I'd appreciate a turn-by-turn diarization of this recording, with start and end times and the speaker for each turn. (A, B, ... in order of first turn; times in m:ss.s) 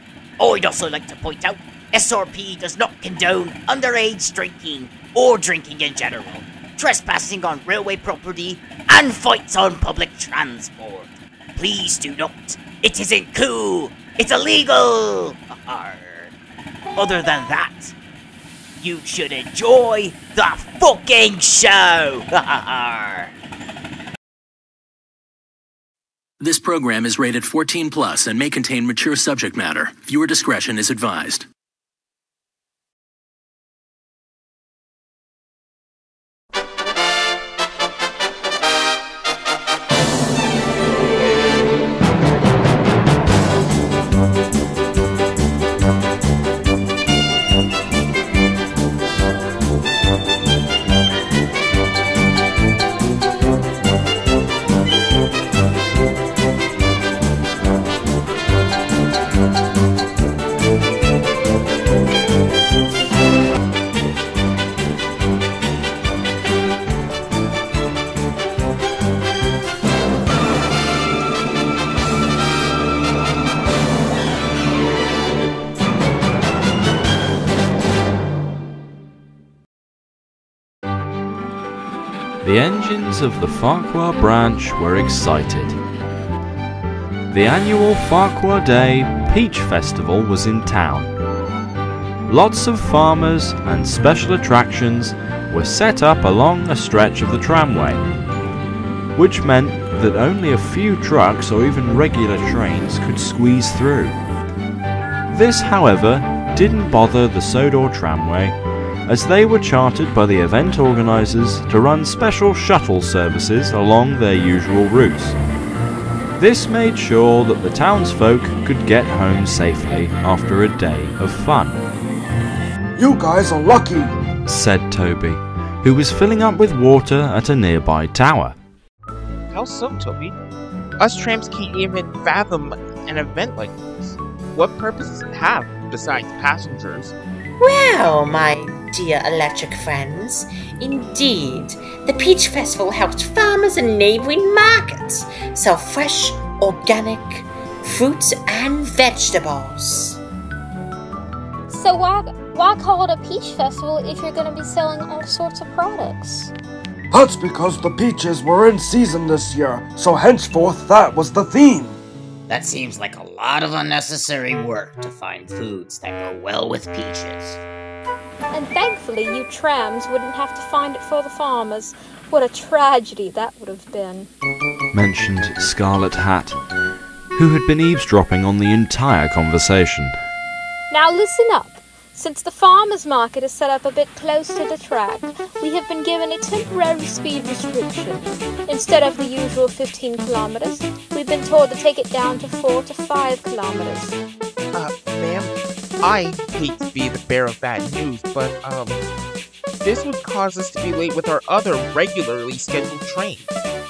0:00.4-0:16.3 A
0:17.0-0:18.0 A
0:18.8-0:23.3 A
0:26.5-0:31.4 B
1:22.4-1:25.8 C
1:27.3-1:31.1 C
1:32.3-1:38.0 C
1:39.2-1:44.2 C
1:45.3-1:48.6 C
1:49.1-1:55.4 C
1:56.4-2:01.8 C
2:03.0-2:04.2 D
2:04.4-2:08.6 C
2:09.5-2:10.4 E
2:11.0-2:17.2 E
2:17.6-2:30.2 F
2:31.7-2:36.5 G
2:37.1-2:42.0 D
2:42.5-2:47.6 A
2:48.5-2:54.3 G
2:54.9-2:56.6 C
2:57.4-3:00.2 C
3:00.9-3:14.2 G
3:14.7-3:19.0 E
3:19.8-3:23.6 E